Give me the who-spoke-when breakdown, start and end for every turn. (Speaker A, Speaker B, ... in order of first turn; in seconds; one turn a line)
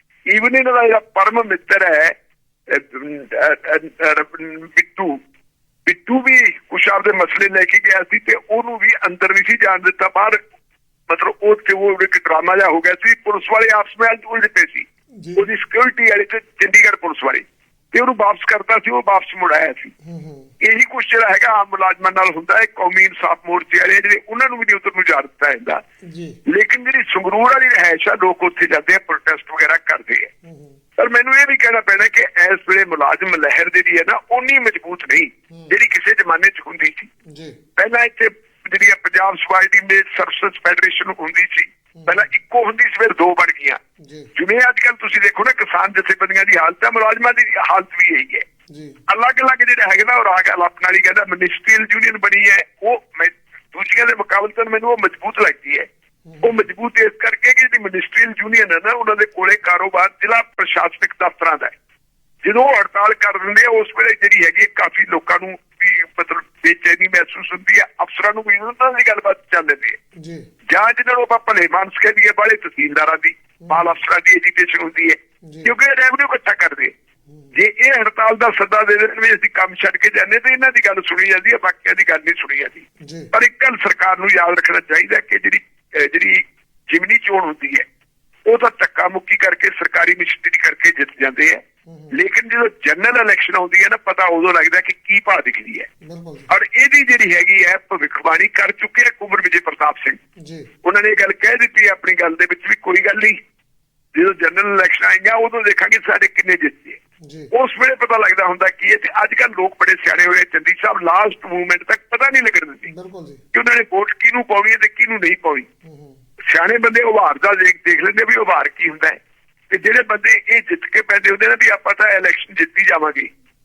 Speaker A: 0.3-2.1
Speaker A: 2.7-5.2
Speaker A: 5.8-10.4
Speaker A: 11.1-19.9
Speaker B: 15.2-15.4
Speaker B: 20.0-20.5
Speaker A: 20.6-25.8
Speaker B: 26.0-26.4
Speaker A: 26.5-30.3
Speaker B: 30.4-30.8
Speaker A: 31.0-37.1
Speaker B: 37.3-37.6
Speaker A: 37.8-43.8
Speaker B: 42.0-42.2
Speaker B: 44.0-44.3
Speaker A: 44.3-48.5
Speaker B: 48.7-49.0
Speaker A: 49.1-55.9
Speaker B: 56.3-56.5
Speaker A: 56.4-61.7
Speaker A: 62.4-70.0
Speaker B: 70.2-70.5
Speaker A: 70.7-76.9
Speaker B: 75.4-75.7
Speaker A: 77.5-87.8
Speaker B: 83.0-83.3
Speaker A: 88.5-91.6
Speaker B: 91.9-92.1
Speaker A: 92.1-95.9
Speaker B: 96.0-96.5
Speaker A: 96.5-100.2
Speaker B: 100.4-100.7
Speaker A: 100.8-103.4
Speaker A: 104.1-107.0
Speaker B: 107.2-107.5
Speaker A: 107.5-112.9
Speaker B: 112.9-113.4
Speaker A: 113.5-115.7
Speaker B: 115.8-116.2
Speaker A: 116.5-119.2
Speaker A: 119.7-123.3